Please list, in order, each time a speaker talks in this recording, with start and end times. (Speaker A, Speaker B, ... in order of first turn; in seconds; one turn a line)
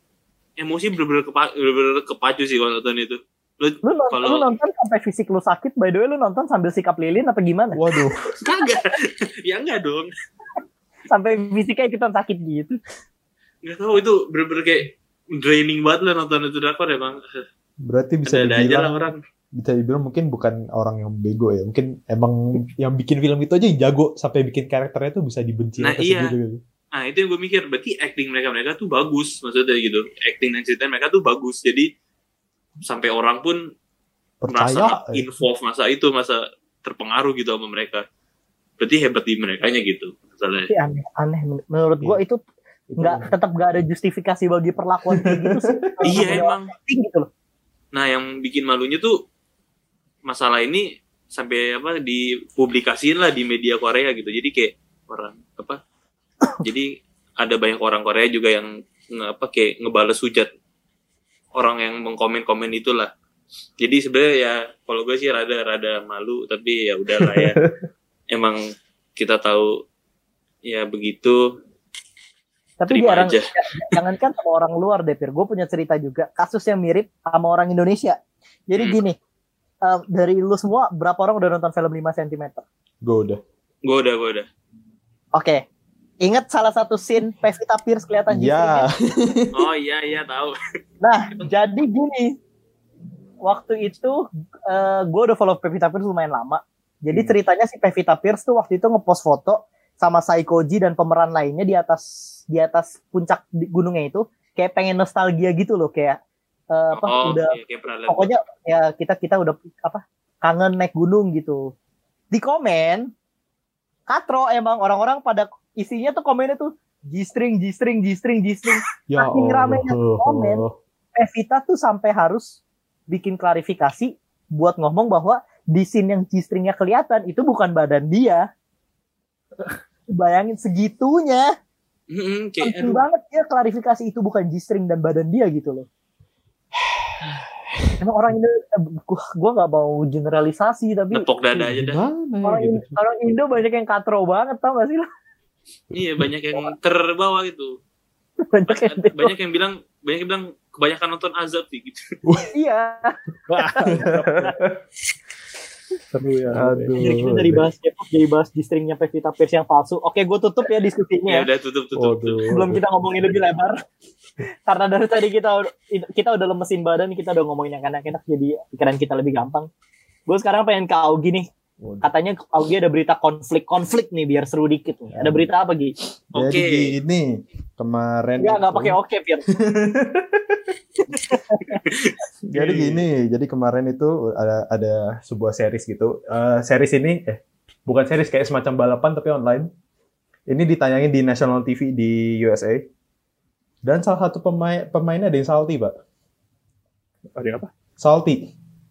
Speaker A: 0.6-4.5
Speaker B: 3.8-7.8
Speaker C: 7.8-8.2
Speaker A: 8.4-10.1
Speaker B: 11.1-12.8
Speaker A: 13.6-17.2
Speaker C: 17.9-19.0
Speaker A: 18.2-19.2
Speaker C: 19.6-26.6
Speaker A: 25.8-26.3
Speaker A: 26.9-31.9
Speaker A: 32.8-33.6
Speaker C: 34.4-35.3
Speaker A: 34.5-38.0
Speaker A: 38.8-40.7
Speaker B: 40.7-42.4
Speaker C: 42.9-43.3
Speaker B: 43.0-47.3
Speaker C: 45.1-46.3
Speaker A: 46.0-46.7
Speaker A: 47.9-49.1
Speaker A: 50.3-55.8
Speaker A: 56.6-56.9
Speaker A: 57.4-60.5
Speaker A: 61.5-63.1
Speaker A: 63.8-67.6
Speaker C: 67.2-67.7
Speaker A: 68.3-68.6
Speaker A: 69.2-69.7
Speaker A: 70.7-71.4
Speaker B: 72.8-78.2
Speaker A: 72.9-74.0
Speaker B: 78.7-79.2
Speaker B: 79.8-82.6
Speaker C: 83.0-83.4
Speaker A: 83.8-84.5
Speaker B: 85.3-85.6
Speaker B: 86.2-88.9
Speaker C: 88.3-89.7
Speaker A: 89.5-90.5
Speaker B: 91.0-92.3
Speaker B: 93.4-106.2
Speaker B: 106.7-107.6
Speaker A: 106.9-108.3
Speaker B: 108.1-111.7
Speaker B: 112.3-113.1
Speaker B: 114.1-120.6
Speaker C: 119.1-120.8
Speaker B: 121.2-128.4
Speaker B: 129.7-131.5
Speaker A: 132.1-133.0
Speaker B: 132.6-135.9
Speaker B: 138.0-141.3
Speaker A: 141.1-142.1
Speaker C: 141.5-143.0
Speaker B: 142.4-145.1
Speaker A: 145.9-147.7
Speaker B: 148.5-149.3
Speaker A: 148.7-152.0
Speaker B: 152.5-154.1
Speaker C: 153.6-154.8
Speaker D: 153.6-154.5
Speaker D: 156.1-157.0
Speaker C: 156.5-157.7
Speaker B: 157.0-161.5
Speaker A: 161.3-162.4
Speaker C: 161.9-163.3
Speaker B: 162.5-163.8
Speaker B: 164.7-169.7
Speaker B: 170.3-171.5
Speaker C: 171.8-172.1
Speaker B: 172.0-175.9
Speaker C: 175.1-175.5
Speaker A: 176.4-176.9
Speaker C: 176.4-180.6
Speaker B: 178.4-179.5
Speaker B: 181.1-181.8
Speaker C: 182.5-189.7
Speaker D: 182.6-183.0
Speaker C: 190.5-192.8
Speaker C: 193.8-195.9
Speaker D: 197.4-197.7
Speaker C: 198.0-198.5